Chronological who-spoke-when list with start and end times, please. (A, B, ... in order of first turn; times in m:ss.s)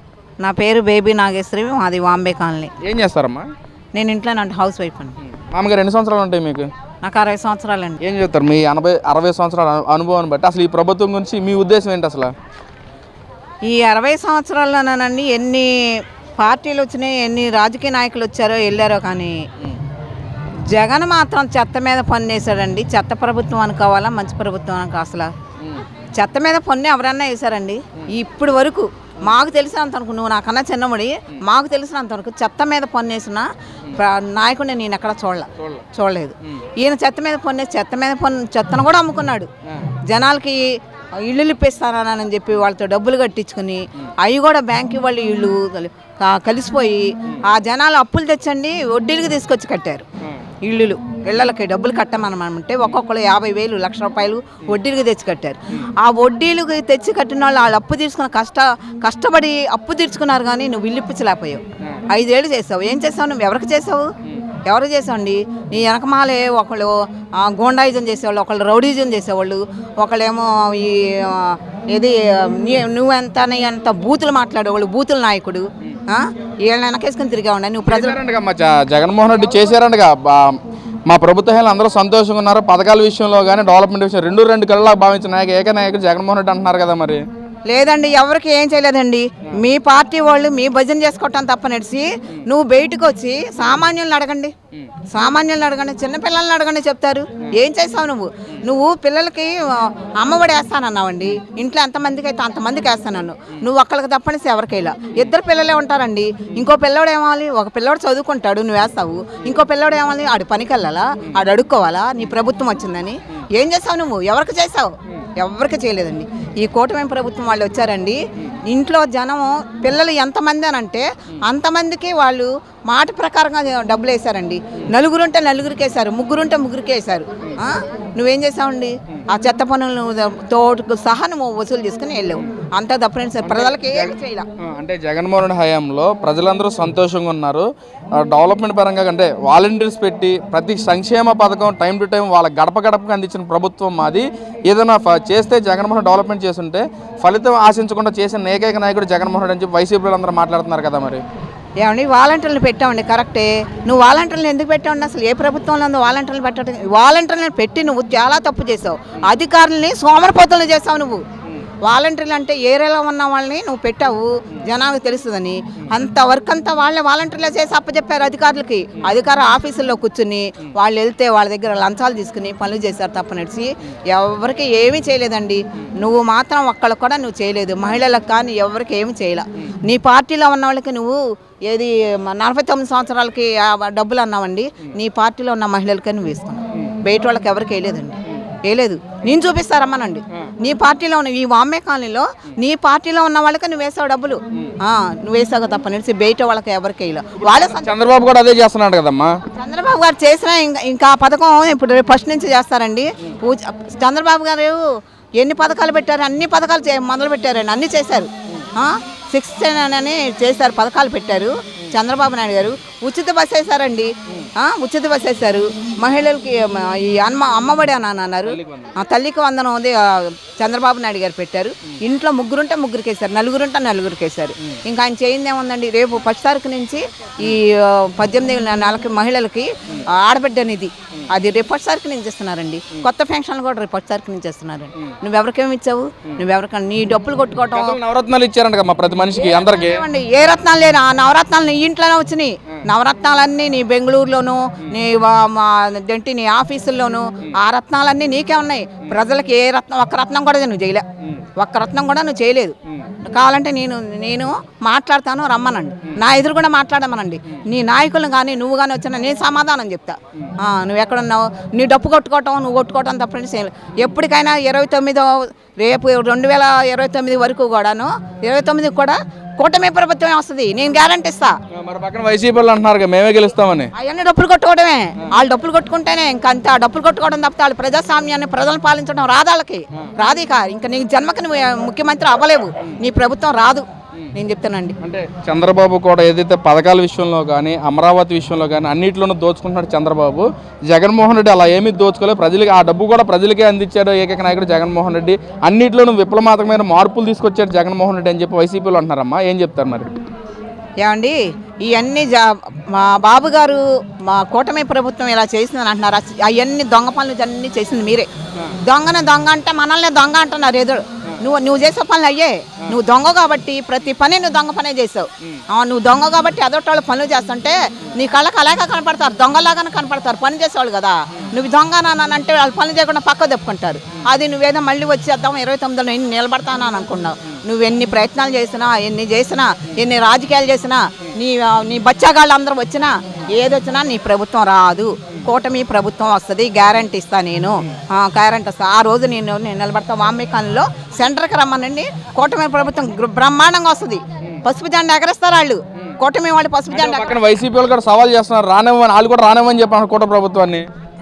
0:00.4-0:02.7 A
0:02.8-0:03.5 B
0:03.9-0:05.2 A
0:05.4-0:06.7 B
0:07.0-0:08.0 A
0:08.0-0:12.3 B
0:13.6-0:19.4 A
0:20.7-0:25.3 A
0:26.1-0:39.5 A
0:35.6-0:35.8 B
0:40.0-0:50.0 A
0:50.6-1:04.1 A
1:04.6-1:18.2 A
1:17.8-1:27.2 B
1:27.7-1:34.5 A
1:35.1-2:14.5 A
2:13.4-2:31.2 B
2:31.8-2:41.2 A
2:41.8-3:18.0 A
3:17.4-3:19.4 B
3:19.5-3:24.8 A
3:25.4-3:58.0 A
3:38.5-3:38.9 B
3:57.7-4:00.0 B
3:59.3-4:31.6 A
4:31.7-4:33.9 B
4:33.9-4:45.0 A
4:45.0-5:00.1 B
5:01.0-5:08.3 A
5:08.8-5:47.3 A
5:46.9-5:50.9 B